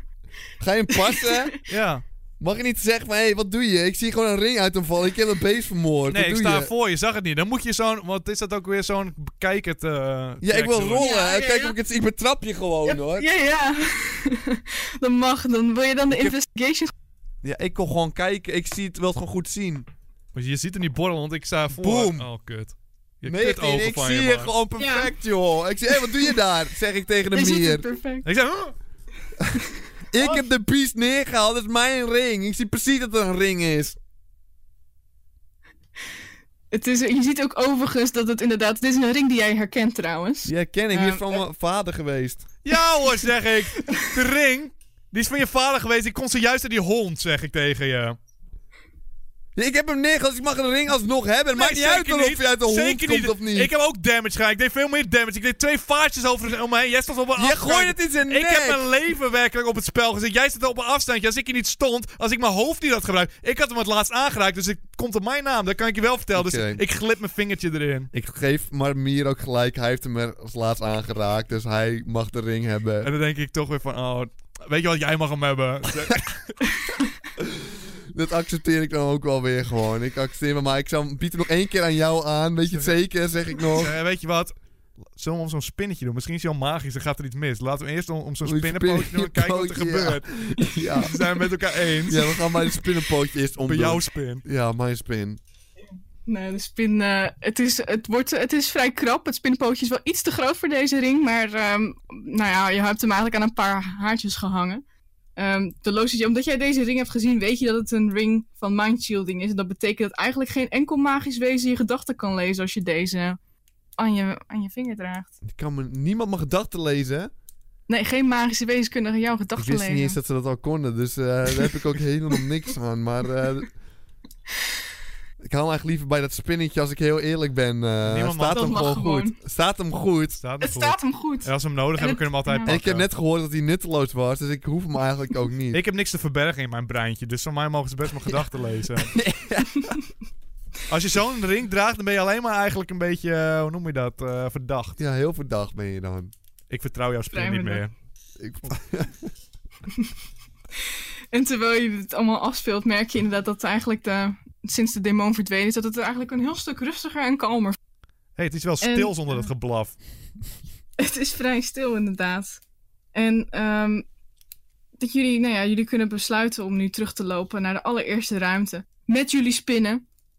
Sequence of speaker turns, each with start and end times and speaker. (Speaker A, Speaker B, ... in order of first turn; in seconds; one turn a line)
Speaker A: 0.6-1.5
Speaker B: 0.9-1.6
Speaker C: 1.7-2.0
Speaker A: 2.4-6.7
Speaker C: 6.1-11.1
Speaker A: 10.4-13.2
Speaker B: 11.0-11.8
Speaker B: 12.8-16.9
Speaker A: 17.4-19.9
Speaker C: 20.3-24.5
Speaker A: 21.8-22.2
Speaker A: 23.2-27.8
Speaker B: 24.8-25.1
Speaker B: 27.3-28.3
Speaker C: 28.2-28.7
Speaker A: 30.1-34.0
Speaker B: 36.7-41.4
Speaker A: 40.5-42.5
Speaker C: 42.6-48.2
Speaker A: 49.5-53.7
Speaker C: 51.5-68.1
Speaker A: 57.4-58.8
Speaker A: 66.3-66.8
Speaker A: 68.1-73.1
Speaker C: 73.0-76.7
Speaker A: 77.4-83.9
Speaker C: 82.7-83.0
Speaker C: 83.7-84.5
Speaker C: 85.1-92.4
Speaker A: 88.4-91.3
Speaker A: 92.1-95.4
Speaker C: 93.7-94.4
Speaker B: 96.2-104.8
Speaker B: 105.4-113.4
Speaker B: 114.0-115.3
Speaker A: 115.4-117.3
Speaker B: 117.9-120.2
Speaker A: 119.6-123.7
Speaker A: 125.4-130.4
Speaker C: 128.0-128.8
Speaker B: 128.5-129.3
Speaker C: 130.4-133.1
Speaker B: 130.6-132.8
Speaker A: 132.7-135.8
Speaker C: 135.7-139.2
Speaker A: 139.1-139.9
Speaker B: 139.7-140.0
Speaker C: 140.9-145.0
Speaker A: 145.0-146.3
Speaker C: 146.7-147.9
Speaker B: 147.3-147.8
Speaker A: 148.4-149.3
Speaker B: 150.8-157.8
Speaker C: 158.4-159.9
Speaker B: 158.8-159.5
Speaker B: 161.0-162.6
Speaker B: 163.1-164.0
Speaker B: 165.0-170.0